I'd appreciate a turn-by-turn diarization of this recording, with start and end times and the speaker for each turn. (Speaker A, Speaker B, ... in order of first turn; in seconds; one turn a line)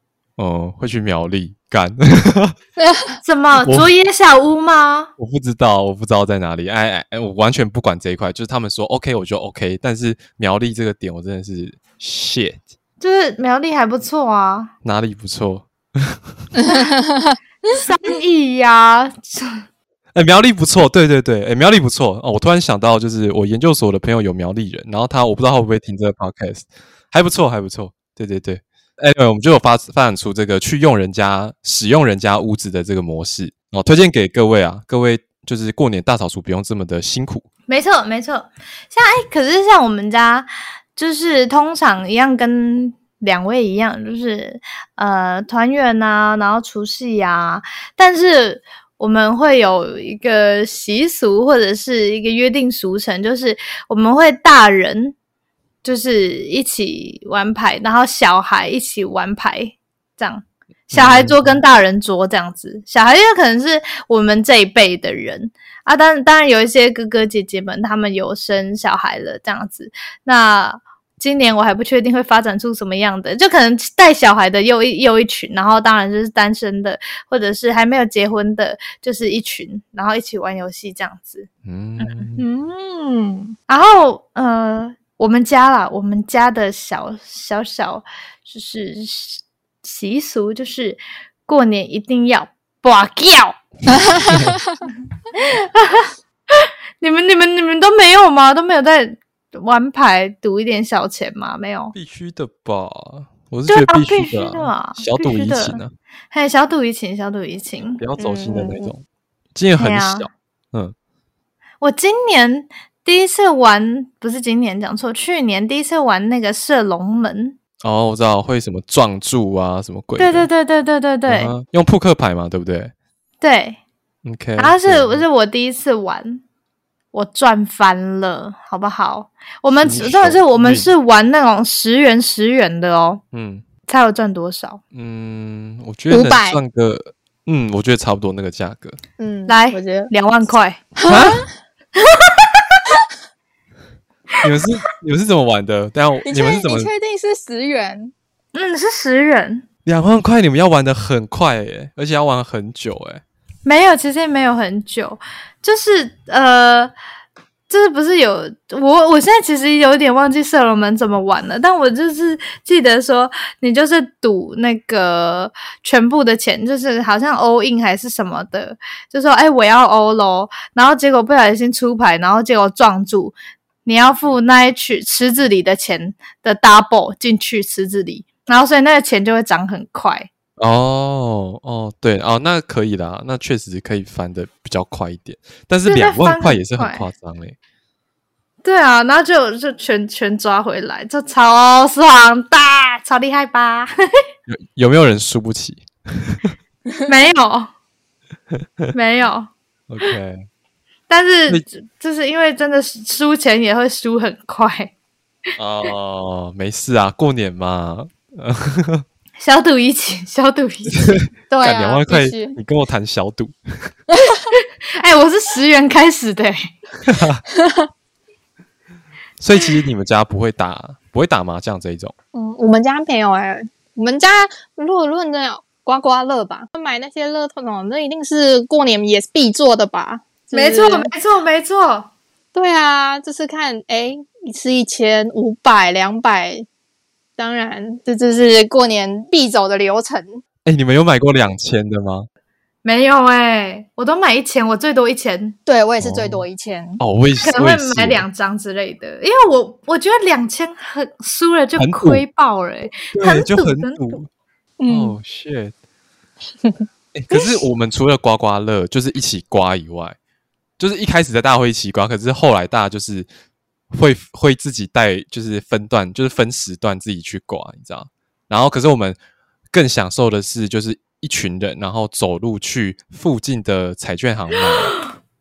Speaker A: 0.4-2.5
Speaker B: 2.8-3.2
Speaker C: 3.2-5.1
Speaker A: 3.6-3.9
Speaker A: 5.2-12.6
Speaker C: 13.0-14.7
Speaker A: 14.8-16.4
Speaker B: 16.6-17.4
Speaker C: 17.7-19.5
Speaker A: 20.1-37.5
Speaker C: 37.7-55.1
Speaker C: 55.8-81.5
Speaker A: 60.9-61.6
Speaker A: 81.7-82.4
Speaker C: 82.0-82.3
Speaker B: 82.4-83.5
Speaker C: 83.7-93.6
Speaker B: 93.9-94.8
Speaker A: 94.3-94.6
Speaker C: 94.9-101.9
Speaker A: 101.9-105.9
Speaker C: 103.7-105.8
Speaker C: 106.3-108.0
Speaker A: 108.0-109.0
Speaker B: 108.2-108.9
Speaker A: 109.5-110.9
Speaker C: 109.8-110.3
Speaker C: 111.8-117.6
Speaker A: 117.8-120.5
Speaker C: 120.2-121.5
Speaker A: 121.3-122.9
Speaker C: 123.4-123.8
Speaker A: 124.2-125.2
Speaker C: 124.6-126.4
Speaker C: 127.1-133.2
Speaker A: 129.8-130.9
Speaker A: 133.3-133.7
Speaker C: 133.9-134.8
Speaker A: 134.9-139.0
Speaker B: 136.1-136.6
Speaker B: 139.2-140.1
Speaker C: 139.5-140.8
Speaker B: 140.9-141.5
Speaker A: 141.1-141.5
Speaker C: 142.0-142.8
Speaker A: 144.4-146.9
Speaker B: 146.2-148.1
Speaker C: 148.5-149.7
Speaker A: 149.9-153.2
Speaker C: 153.7-156.9
Speaker C: 157.7-173.3
Speaker C: 173.8-180.3
Speaker A: 180.6-187.6
Speaker C: 185.8-187.1
Speaker C: 188.6-193.9
Speaker A: 194.5-196.5
Speaker C: 197.1-197.7
Speaker C: 198.9-199.5
Speaker A: 199.9-200.5
Speaker C: 201.1-204.9
Speaker A: 205.6-209.1
Speaker C: 209.4-211.3
Speaker A: 210.9-213.9
Speaker B: 211.5-212.6
Speaker C: 214.5-216.6
Speaker A: 217.0-217.4
Speaker B: 217.5-217.9
Speaker A: 219.4-222.1
Speaker B: 222.3-231.1
Speaker C: 230.5-232.1
Speaker B: 232.5-236.7
Speaker B: 237.4-240.4
Speaker A: 240.7-242.3
Speaker C: 242.8-245.6
Speaker B: 245.7-247.0
Speaker A: 246.0-246.4
Speaker A: 247.0-248.2
Speaker C: 247.4-254.2
Speaker A: 251.8-252.3
Speaker A: 253.1-254.3
Speaker B: 254.8-255.2
Speaker A: 254.9-255.7
Speaker A: 257.1-260.2
Speaker B: 257.3-257.6
Speaker A: 260.8-263.3
Speaker A: 263.9-269.2
Speaker A: 269.7-275.0